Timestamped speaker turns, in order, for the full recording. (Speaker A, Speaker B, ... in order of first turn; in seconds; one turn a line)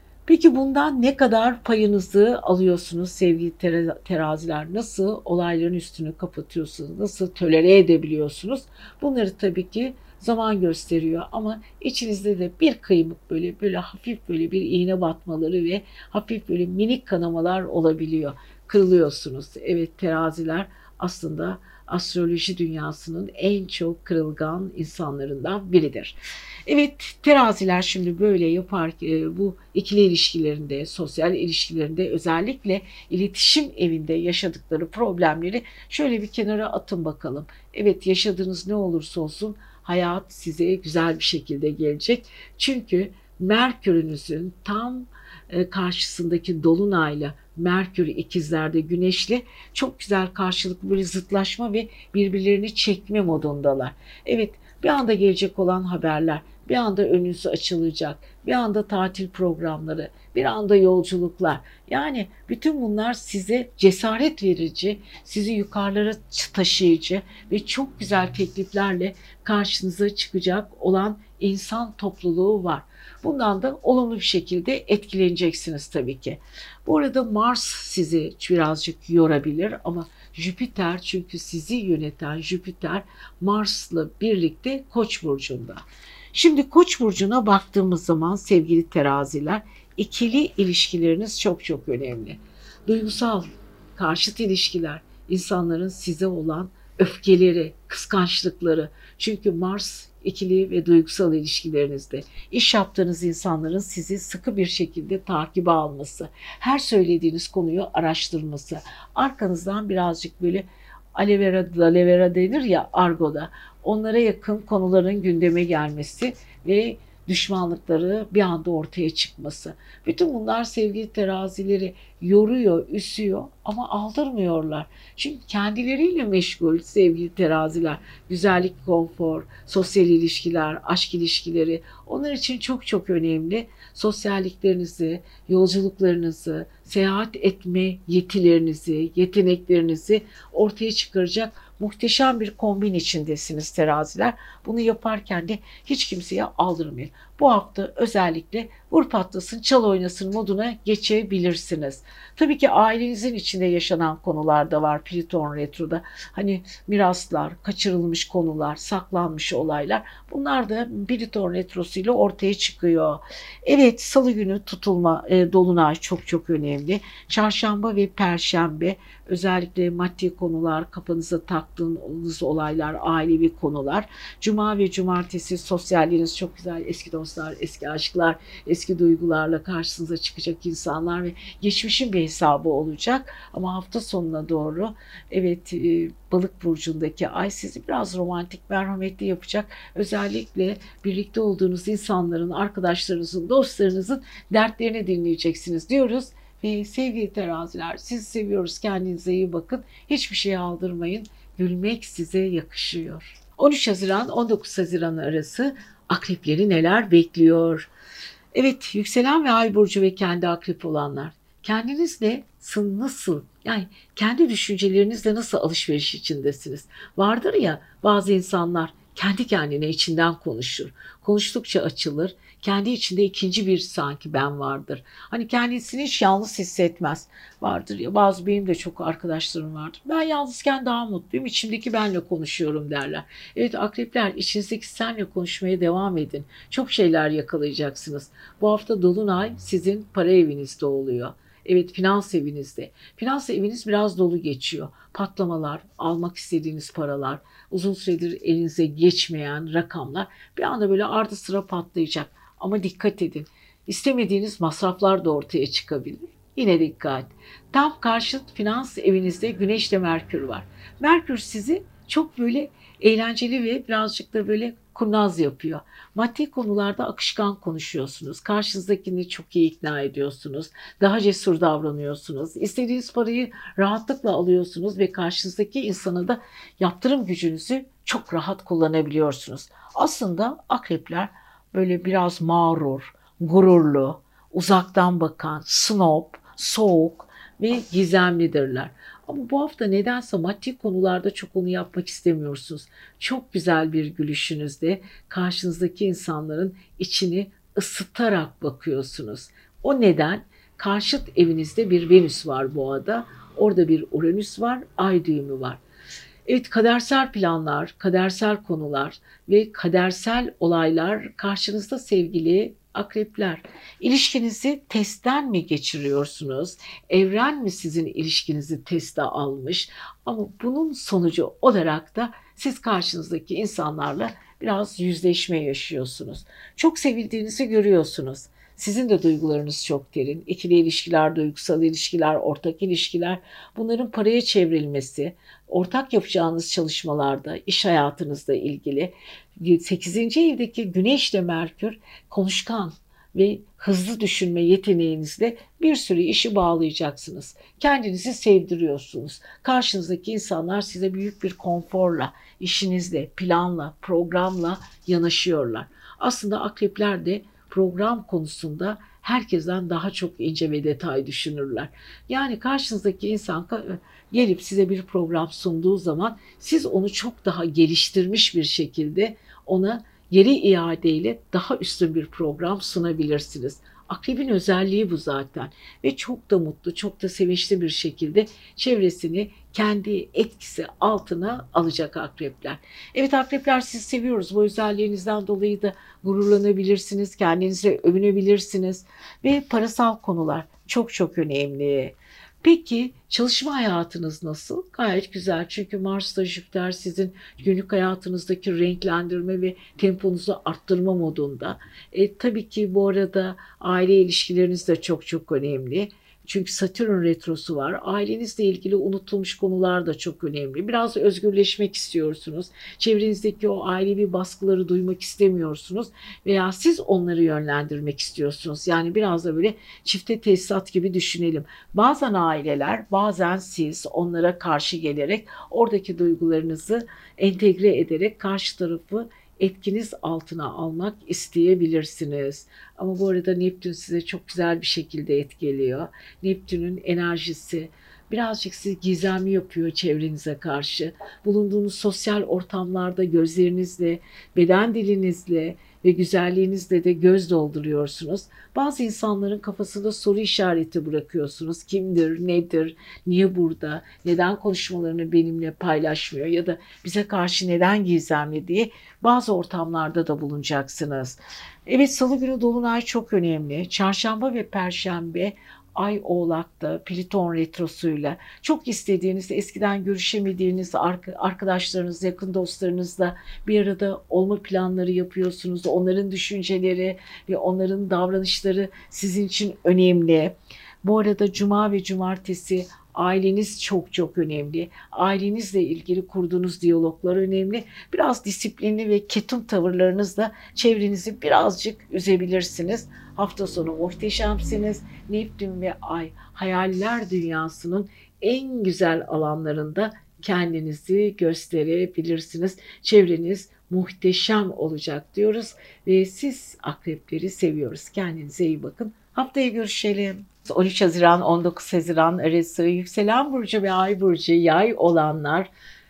Speaker A: 0.3-85.8
Speaker A: 86.3-207.9
Speaker A: 208.5-305.8
Speaker A: 306.5-515.7